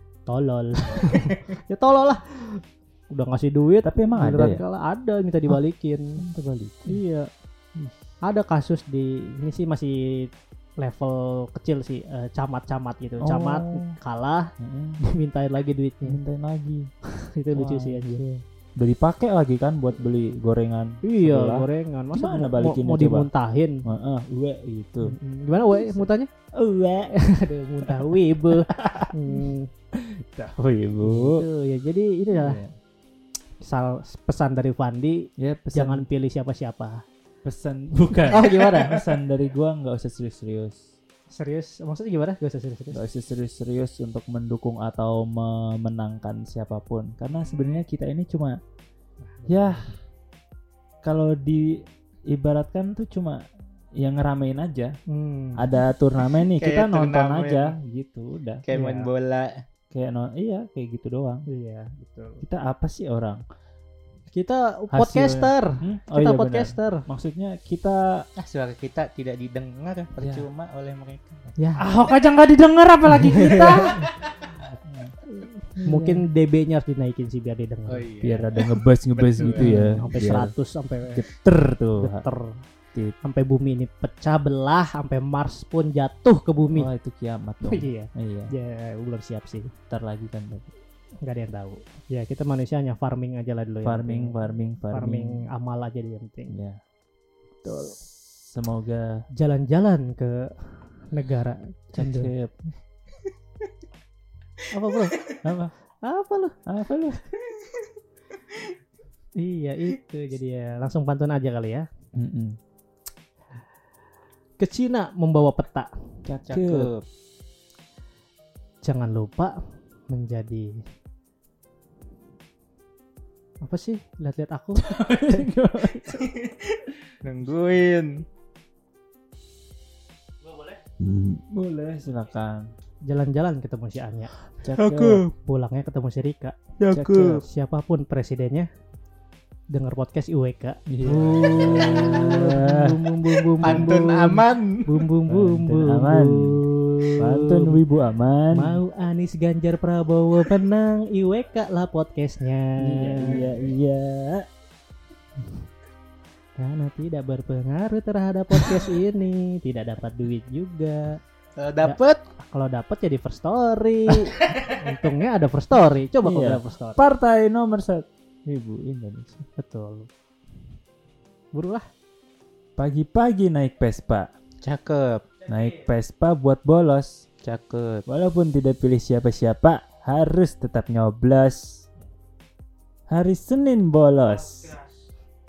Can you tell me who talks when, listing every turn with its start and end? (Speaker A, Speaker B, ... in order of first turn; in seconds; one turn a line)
Speaker A: 0.3-6.2
Speaker B: 3.8-4.6
Speaker B: 6.2-7.0
Speaker A: 6.9-7.3
Speaker A: 8.2-14.5
Speaker B: 13.2-13.9
Speaker B: 14.6-15.0
Speaker A: 15.0-16.2
Speaker B: 16.0-16.9
Speaker A: 17.2-18.2
Speaker B: 17.5-23.3
Speaker A: 21.0-23.8
Speaker B: 23.8-25.2
Speaker A: 25.0-26.3
Speaker B: 25.7-27.1
Speaker A: 27.1-29.7
Speaker B: 27.8-31.4
Speaker A: 31.0-32.6
Speaker B: 32.3-32.7
Speaker A: 33.6-37.0
Speaker B: 35.4-36.0
Speaker B: 37.4-40.8
Speaker A: 38.3-39.0
Speaker C: 38.7-39.0
Speaker A: 41.3-43.0
Speaker B: 42.9-48.5
Speaker A: 49.2-49.9
Speaker B: 49.5-49.9
Speaker B: 51.0-53.4
Speaker B: 54.0-54.9
Speaker A: 55.1-55.7
Speaker B: 55.5-58.6
Speaker C: 56.4-57.7
Speaker C: 58.6-59.6
Speaker A: 58.7-59.1
Speaker B: 59.9-61.4
Speaker A: 61.5-62.4
Speaker B: 62.4-63.4
Speaker A: 64.3-67.0
Speaker B: 64.9-68.2
Speaker C: 68.4-71.5
Speaker B: 70.2-70.5
Speaker A: 71.6-71.9
Speaker B: 71.8-74.1
Speaker A: 73.1-74.0
Speaker C: 74.1-74.5
Speaker B: 74.6-75.2
Speaker A: 75.2-78.0
Speaker B: 75.8-76.2
Speaker C: 77.9-79.9
Speaker B: 78.2-80.5
Speaker A: 79.4-81.2
Speaker B: 81.1-82.2
Speaker A: 82.0-82.6
Speaker A: 83.2-86.9
Speaker B: 86.7-88.5
Speaker A: 87.6-89.7
Speaker B: 89.9-90.7
Speaker A: 91.2-94.3
Speaker B: 93.8-95.4
Speaker A: 94.9-96.6
Speaker B: 96.5-96.8
Speaker A: 97.6-98.0
Speaker B: 97.6-99.2
Speaker A: 99.4-102.3
Speaker B: 102.0-102.5
Speaker A: 104.7-105.2
Speaker B: 105.4-105.7
Speaker A: 106.0-106.5
Speaker B: 106.7-107.2
Speaker A: 109.4-111.8
Speaker B: 112.1-112.6
Speaker A: 114.6-115.9
Speaker B: 116.2-116.9
Speaker C: 116.5-117.0
Speaker A: 118.8-119.6
Speaker A: 120.1-120.8
Speaker A: 123.6-125.5
Speaker B: 124.8-126.3
Speaker C: 126.3-128.2
Speaker A: 130.4-130.8
Speaker B: 131.0-132.7
Speaker A: 133.1-134.3
Speaker B: 134.6-135.2
Speaker C: 134.7-135.3
Speaker A: 135.4-136.5
Speaker C: 136.8-137.4
Speaker B: 136.9-137.4
Speaker A: 137.2-138.7
Speaker A: 139.7-147.8
Speaker B: 140.9-143.9
Speaker C: 143.6-145.0
Speaker B: 145.3-146.6
Speaker B: 147.2-148.8
Speaker A: 148.5-153.5
Speaker B: 152.8-154.5
Speaker A: 156.6-161.2
Speaker C: 161.6-162.2
Speaker A: 161.8-167.0
Speaker B: 166.2-169.4
Speaker A: 169.6-170.1
Speaker A: 171.5-171.8
Speaker B: 172.8-174.3
Speaker C: 174.6-175.3
Speaker B: 175.5-177.2
Speaker C: 177.4-178.0
Speaker B: 178.1-181.9
Speaker B: 183.1-184.7